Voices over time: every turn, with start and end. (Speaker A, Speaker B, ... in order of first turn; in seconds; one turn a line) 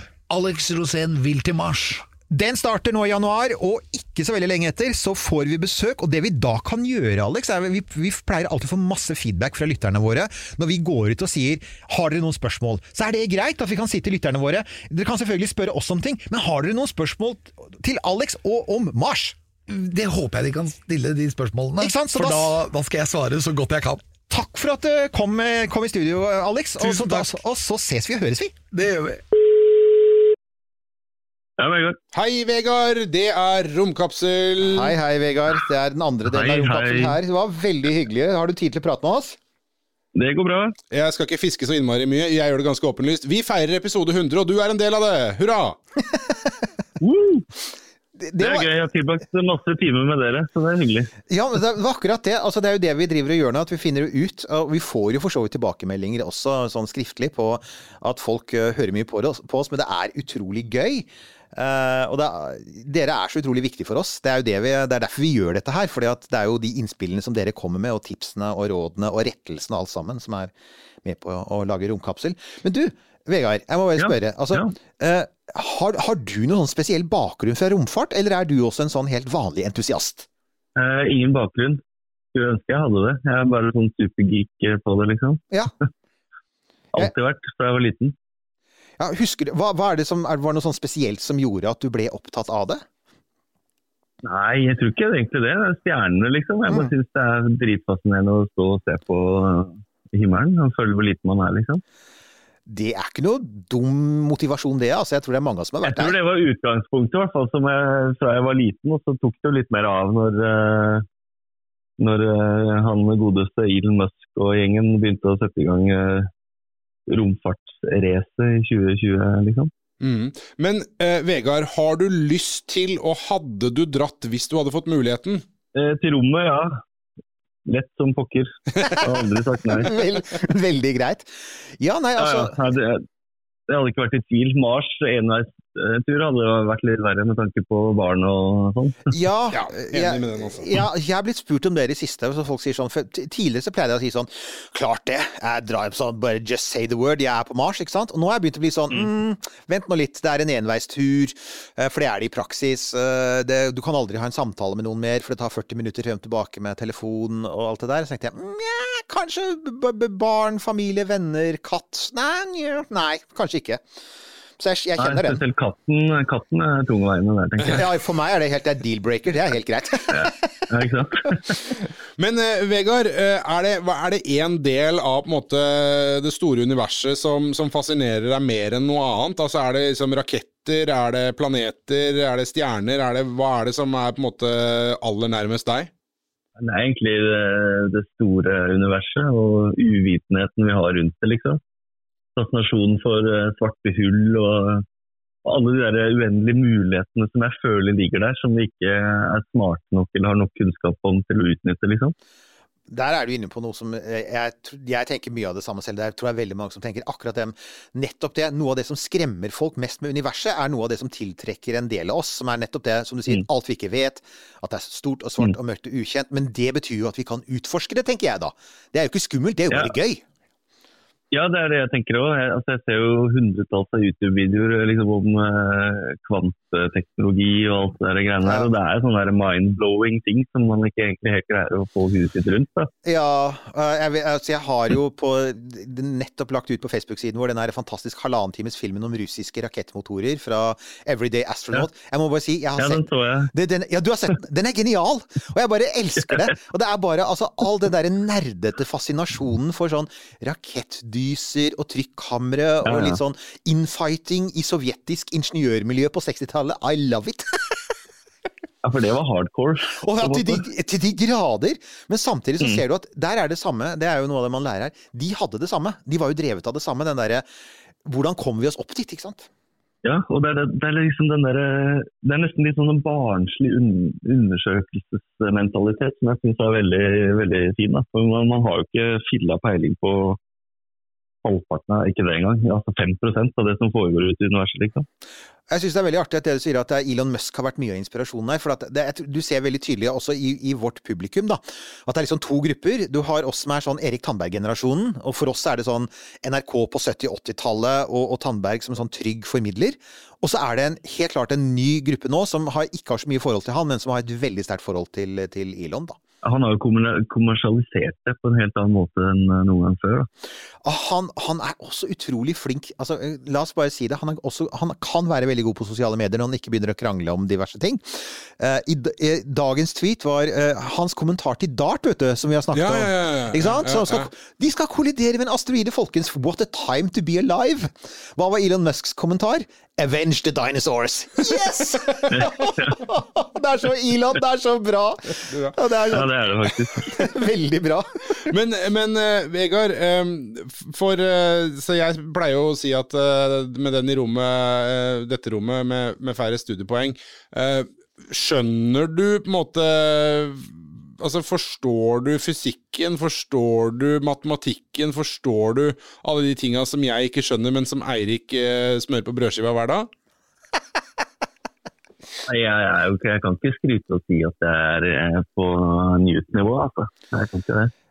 Speaker A: 0.3-2.1
Speaker B: 2.3-19.4
Speaker A: 19.7-24.1
Speaker B: 21.8-22.5
Speaker B: 24.3-28.6
Speaker A: 26.8-27.3
Speaker A: 28.7-29.2
Speaker C: 31.6-32.0
Speaker D: 32.1-35.0
Speaker B: 34.6-39.4
Speaker C: 36.3-37.2
Speaker C: 40.1-40.8
Speaker D: 40.9-45.8
Speaker C: 47.0-47.5
Speaker B: 48.2-48.7
Speaker C: 48.4-51.1
Speaker B: 51.3-70.5
Speaker B: 71.0-80.3
Speaker C: 74.0-74.7
Speaker C: 80.8-81.8
Speaker C: 82.3-85.4
Speaker C: 86.9-88.2
Speaker B: 89.0-92.8
Speaker C: 94.2-101.8
Speaker B: 102.7-106.2
Speaker C: 105.9-111.1
Speaker C: 112.0-116.3
Speaker C: 117.1-119.7
Speaker D: 120.0-125.4
Speaker C: 125.8-126.8
Speaker C: 127.7-130.0
Speaker B: 129.8-132.6
Speaker C: 132.2-133.0
Speaker C: 133.7-139.1
Speaker B: 139.1-163.8
Speaker D: 139.5-140.8
Speaker B: 164.6-165.4
Speaker C: 165.0-167.9
Speaker B: 167.7-170.4
Speaker C: 170.1-171.6
Speaker D: 172.2-185.9
Speaker C: 186.6-191.6
Speaker C: 192.4-194.8
Speaker C: 195.4-202.2
Speaker B: 202.9-220.2
Speaker C: 221.3-232.9
Speaker B: 228.4-228.7
Speaker B: 233.0-257.8
Speaker C: 242.8-243.5
Speaker C: 252.8-253.2
Speaker C: 258.8-260.6
Speaker B: 259.9-267.5
Speaker B: 268.1-269.5
Speaker C: 270.0-280.4
Speaker C: 281.4-285.1
Speaker B: 285.7-306.2
Speaker C: 306.4-310.3
Speaker B: 310.8-338.5
Speaker D: 322.7-324.3
Speaker C: 332.4-332.9
Speaker D: 335.4-335.8
Speaker C: 336.1-337.2
Speaker D: 338.5-360.1
Speaker C: 362.5-367.9